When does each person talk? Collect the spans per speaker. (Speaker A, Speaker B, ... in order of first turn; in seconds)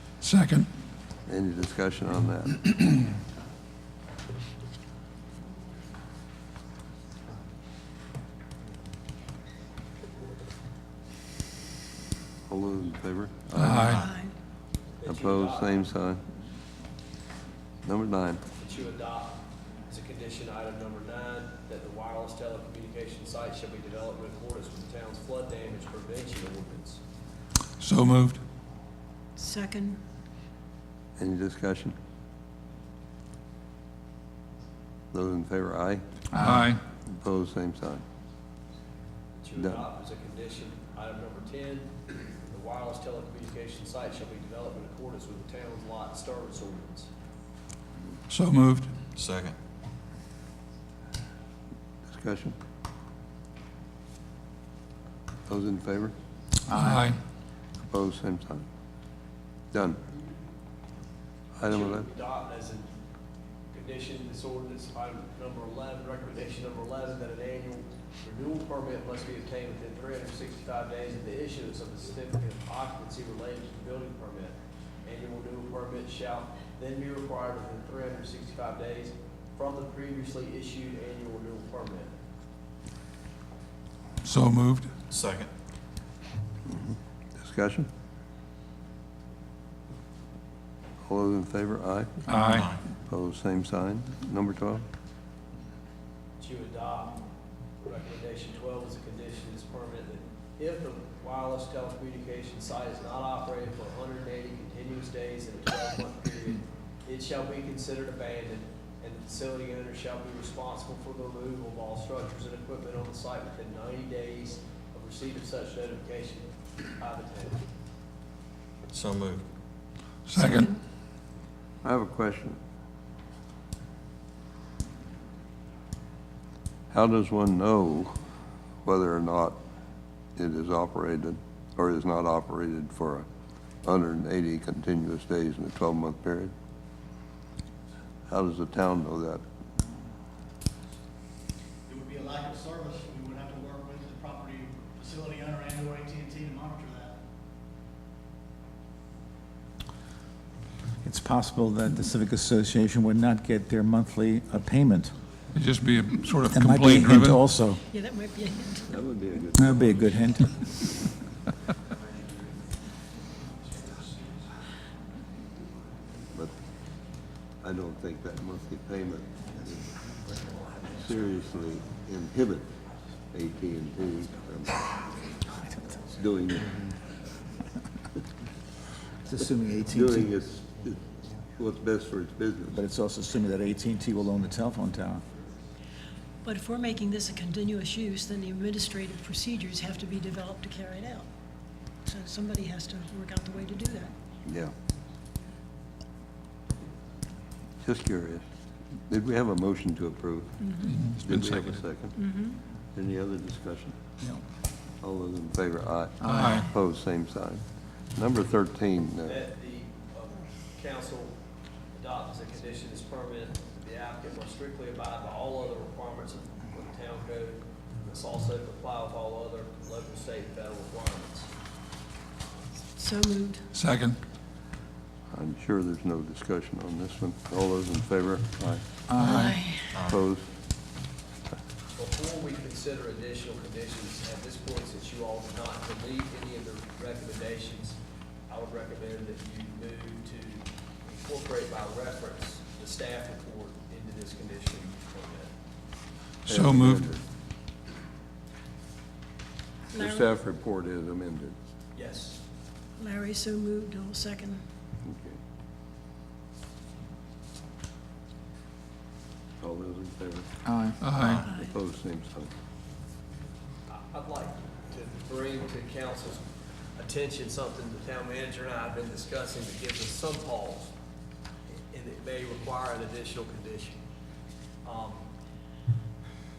Speaker A: 0.2-0.7, 13.5-14.0, 27.8-28.4, 36.3-36.8, 48.3-48.9, 56.7-57.2, 84.2-84.9, 92.2-92.7, 120.3-120.7, 155.5-157.5, 200.8-201.8, 206.2-206.7, 223.7-224.2, 229.1-229.6, 246.4-247.1, 261.0-261.5
Speaker B: 1.3-2.7, 12.5-14.0, 15.0-16.2, 17.8-18.4, 31.2-31.9, 35.1-36.0, 37.0-38.0, 52.1-52.5, 55.5-56.1, 57.9-58.7, 59.7-60.0, 61.6-62.1, 86.7-87.9, 91.0-92.2, 93.0-94.8, 121.8-122.6, 126.9-128.2, 128.8-129.6, 130.3-133.2, 133.8-136.5, 138.3-139.4, 158.9-160.4, 167.6-169.9, 170.9-172.7, 173.3-174.9, 176.1-176.8, 179.9-182.8, 194.4-194.7, 197.8-198.4, 199.1-200.6, 201.2-202.2, 202.9-203.9, 205.0-209.4, 225.3-228.8, 230.0-230.5, 246.5-247.2, 249.9-251.5, 255.0-255.4, 259.6-260.5, 261.4-262.5
Speaker C: 13.9-14.3, 29.4-30.0, 120.3-120.8, 157.9-159.0, 186.4-191.2, 192.1-194.1, 200.6-200.9, 202.1-202.6, 222.9-223.7, 229.2-229.9, 249.9-250.3, 253.0-254.6, 261.5-261.7
Speaker D: 15.0-15.9, 18.6-27.0, 39.4-41.9, 42.4-47.1, 61.6-62.9, 63.7-82.1, 96.4-97.2, 97.8-117.6, 209.2-211.3, 211.9-221.5, 231.9-238.0, 238.5-245.5, 251.9-252.4, 263.9-266.4, 267.0-270.9, 271.9-274.0, 274.9-275.2
Speaker E: 49.1-49.5, 85.1-85.5, 92.5-92.8, 118.9-119.4, 229.9-230.2, 261.1-261.5
Speaker F: 141.9-147.2
Speaker G: 151.0-155.1, 156.5-157.8, 159.5-160.7, 179.2-180.3, 182.7-185.2, 260.7-261.0